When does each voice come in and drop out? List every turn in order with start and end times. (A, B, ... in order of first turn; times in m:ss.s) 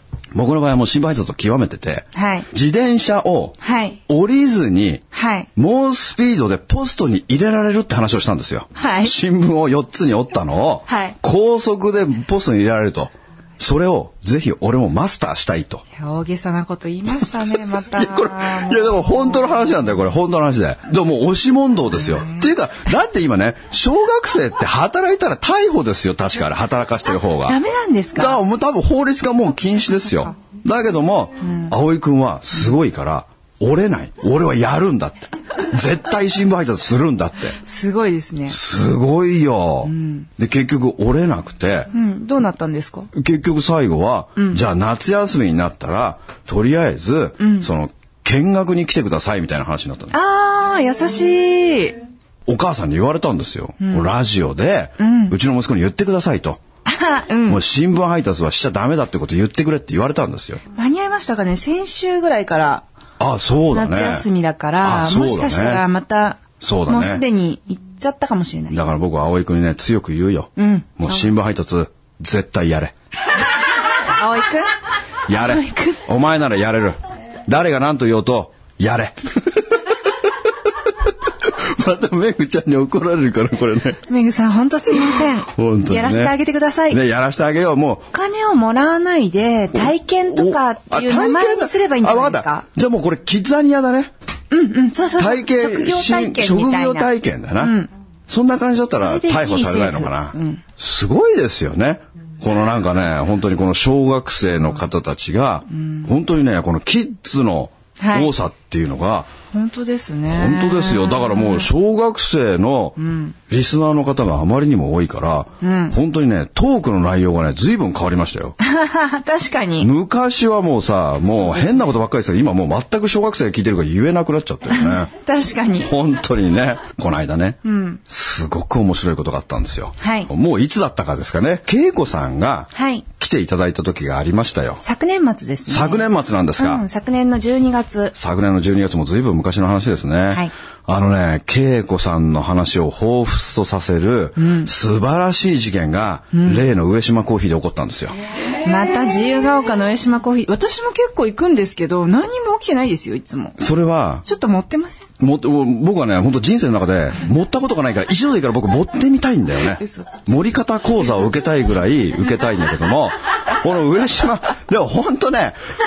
0:00.3-0:05.0 A
0:02.1-0:02.5 B
0:03.6-0:04.0 B
0:05.1-0:05.5 B
0:05.6-0:15.8 A
0:08.8-0:09.2 B
0:10.9-0:11.2 B
0:15.9-0:19.7 B
0:17.9-0:27.6 A
0:22.0-0:22.5 B
0:27.4-0:28.4 B
0:28.1-0:37.6 A
0:31.4-0:31.7 B
0:37.6-0:38.6 B
0:38.5-0:41.9 A
0:39.9-0:40.3 B
0:41.9-0:43.1 B
0:43.1-0:50.1 A
0:44.4-0:44.6 B
0:47.4-0:47.7 B
0:50.1-0:52.0 B
0:52.4-0:56.6 A
0:53.8-0:54.1 B
0:55.0-0:55.4 B
0:56.9-0:57.6 B
0:57.4-1:00.6 A
1:00.7-1:02.8 B
1:03.2-1:04.3 A
1:03.7-1:08.8 B
1:04.8-1:05.8 A
1:06.6-1:07.2 A
1:08.7-1:12.9 A
1:10.6-1:11.3 B
1:13.9-1:14.7 B
1:15.3-1:20.0 A
1:15.3-1:16.0 B
1:20.8-1:24.0 A
1:24.1-1:27.0 B
1:25.5-1:26.4 A
1:26.9-1:28.1 A
1:28.1-1:32.6 B
1:29.7-1:34.1 A
1:34.5-1:37.9 B
1:35.2-1:37.8 A
1:38.3-1:49.3 A
1:39.0-1:40.6 B
1:45.8-1:46.1 B
1:48.0-1:48.3 B
1:49.5-1:51.7 B
1:50.3-1:53.0 A
1:53.0-1:53.3 B
1:53.5-1:58.6 A
1:55.6-1:56.0 B
1:58.6-1:59.9 B
1:59.8-2:05.1 A
2:01.3-2:01.8 B
2:04.7-2:05.9 B
2:05.8-2:14.8 A
2:07.6-2:08.0 B
2:10.0-2:10.3 B
2:12.7-2:13.0 B
2:14.8-2:16.1 B
2:15.7-2:16.8 A
2:16.6-2:18.1 B
2:18.2-2:28.1 A
2:24.4-2:24.7 B
2:26.3-2:26.6 B
2:28.6-2:33.6 B
2:33.6-2:34.2 A
2:34.2-2:35.1 B
2:35.2-2:45.6 A
2:39.8-2:40.2 B